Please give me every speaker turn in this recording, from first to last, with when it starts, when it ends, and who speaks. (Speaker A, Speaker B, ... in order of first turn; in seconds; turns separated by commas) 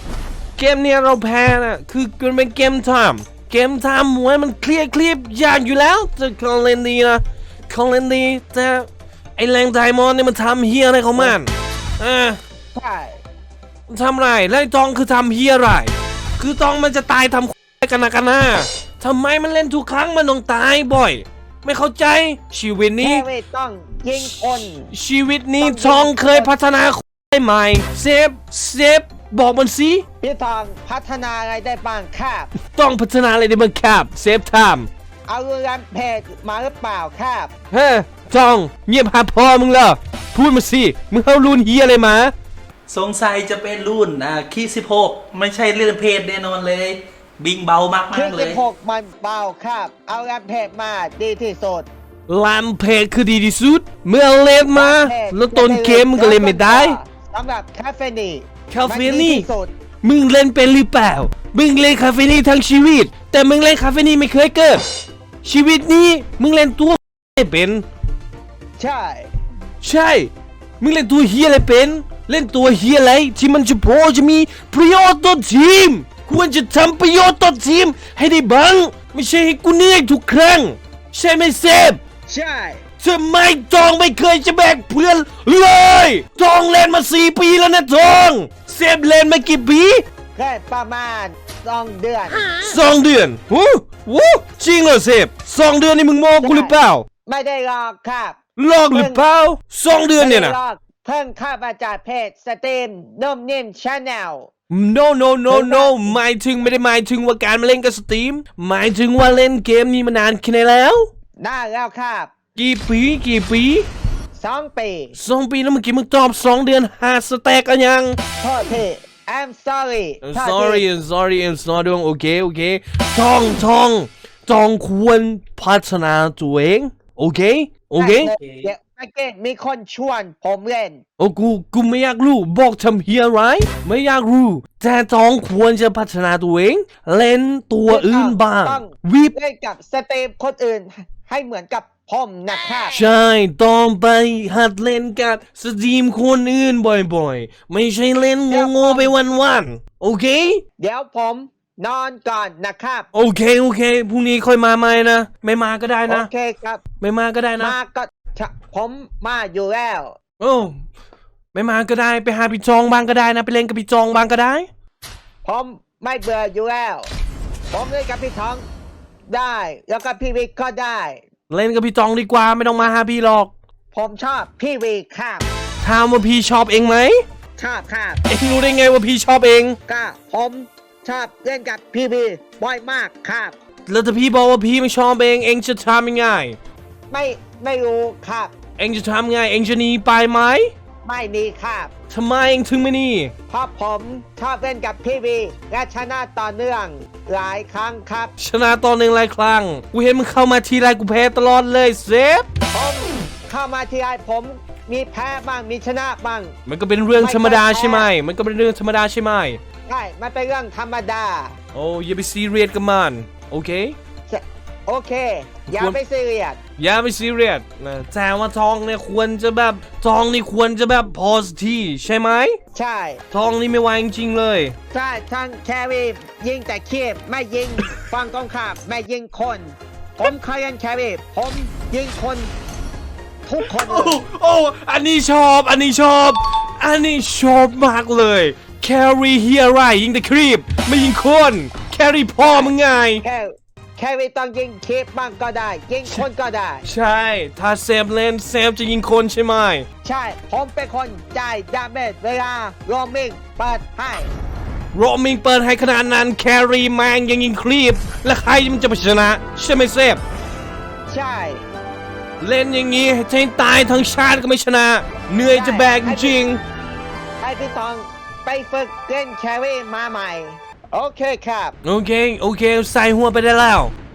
Speaker A: 0.6-12.4, Speaker B: 12.7-13.2, Speaker A: 13.9-23.3, Speaker B: 23.0-24.9, Speaker A: 24.9-30.0, Speaker B: 25.6-26.6, Speaker B: 30.2-32.5, Speaker A: 32.6-34.9, Speaker B: 35.3-37.5, Speaker A: 37.7-42.3, Speaker C: 42.9-48.6, Speaker B: 48.1-51.9, Speaker A: 52.3-57.0, Speaker B: 54.7-59.7, Speaker A: 58.7-59.5, Speaker A: 60.0-64.8, Speaker A: 65.4-67.8, Speaker B: 68.8-69.3, Speaker A: 69.8-82.0, Speaker B: 82.3-82.8, Speaker A: 83.0-90.0, Speaker B: 90.3-92.5, Speaker A: 92.5-97.0, Speaker B: 96.4-98.4, Speaker A: 98.6-100.6, Speaker B: 98.9-99.2, Speaker B: 100.2-104.5, Speaker A: 104.7-111.1, Speaker B: 105.5-106.2, Speaker B: 111.4-112.3, Speaker A: 112.5-113.9, Speaker B: 114.3-115.2, Speaker A: 115.2-118.2, Speaker B: 118.4-120.9, Speaker A: 120.2-128.4, Speaker B: 128.0-131.0, Speaker A: 131.2-139.3, Speaker B: 137.9-143.0, Speaker A: 142.9-150.6, Speaker B: 148.5-149.1, Speaker B: 150.8-153.1, Speaker A: 153.1-156.3, Speaker B: 156.1-156.8, Speaker A: 157.0-157.8, Speaker B: 157.6-160.2, Speaker A: 160.4-160.8, Speaker A: 161.5-164.7, Speaker B: 165.4-167.1, Speaker B: 167.7-168.6, Speaker B: 169.3-171.2, Speaker A: 171.5-173.5, Speaker B: 173.9-175.5, Speaker A: 175.8-177.2, Speaker B: 177.6-178.2, Speaker A: 178.3-179.8, Speaker B: 179.9-183.6, Speaker A: 183.9-186.6, Speaker B: 187.1-188.5, Speaker A: 188.8-190.7, Speaker B: 191.1-191.9, Speaker A: 192.1-193.3, Speaker B: 193.5-198.3, Speaker A: 198.4-202.5, Speaker B: 202.7-206.5, Speaker A: 206.7-209.6, Speaker B: 207.2-208.1, Speaker B: 209.9-211.5, Speaker A: 211.7-214.0, Speaker B: 214.3-216.6, Speaker A: 215.7-216.0, Speaker A: 216.8-222.6, Speaker B: 222.7-223.2, Speaker A: 223.3-224.7, Speaker B: 224.9-232.5, Speaker B: 233.5-234.2, Speaker A: 233.6-243.2, Speaker B: 242.4-246.8, Speaker A: 246.8-249.9, Speaker B: 250.0-254.3, Speaker A: 254.9-260.2, Speaker B: 261.1-261.6, Speaker A: 262.4-266.6, Speaker B: 265.5-266.4, Speaker B: 267.4-271.8, Speaker A: 271.8-273.9